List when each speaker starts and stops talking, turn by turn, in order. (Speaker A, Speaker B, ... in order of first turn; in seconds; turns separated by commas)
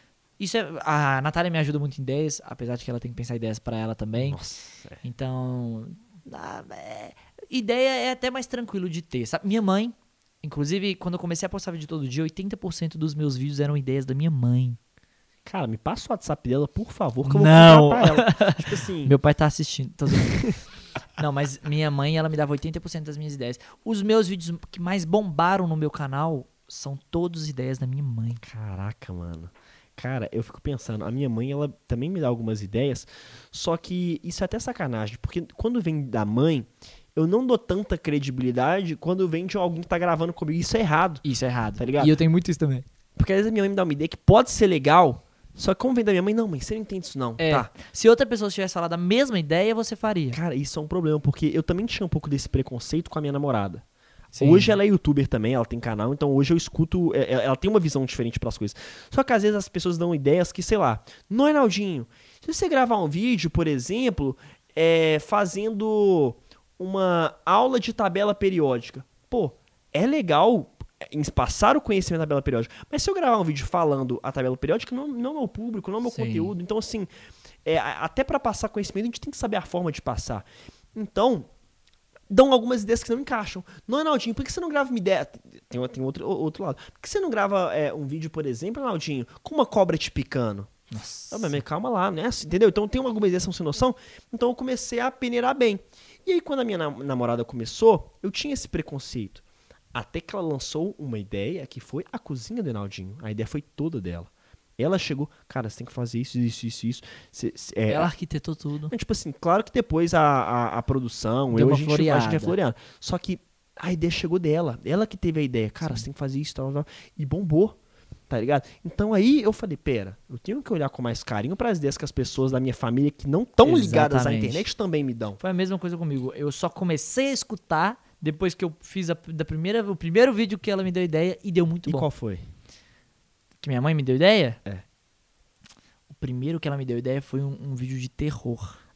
Speaker A: 0.4-4.4, Speaker B: 4.2-5.0, Speaker A: 5.0-14.8, Speaker B: 15.4-19.1, Speaker A: 17.2-20.5, Speaker B: 20.3-20.5, Speaker A: 21.2-28.4, Speaker B: 28.4-41.2, Speaker A: 41.2-42.9, Speaker B: 41.8-42.1, Speaker B: 43.1-47.7, Speaker A: 47.4-50.4, Speaker B: 50.3-53.8, Speaker A: 54.3-54.8, Speaker B: 54.4-77.1, Speaker A: 76.0-76.5, Speaker B: 77.7-81.5, Speaker B: 82.3-90.7, Speaker A: 90.9-91.6, Speaker B: 91.3-99.4, Speaker B: 99.9-108.1, Speaker A: 107.9-108.9, Speaker B: 108.9-117.8, Speaker A: 111.5-112.6, Speaker B: 118.3-125.4, Speaker A: 123.6-124.7, Speaker A: 125.4-132.1, Speaker B: 131.9-132.4, Speaker A: 133.6-134.6, Speaker A: 136.1-138.8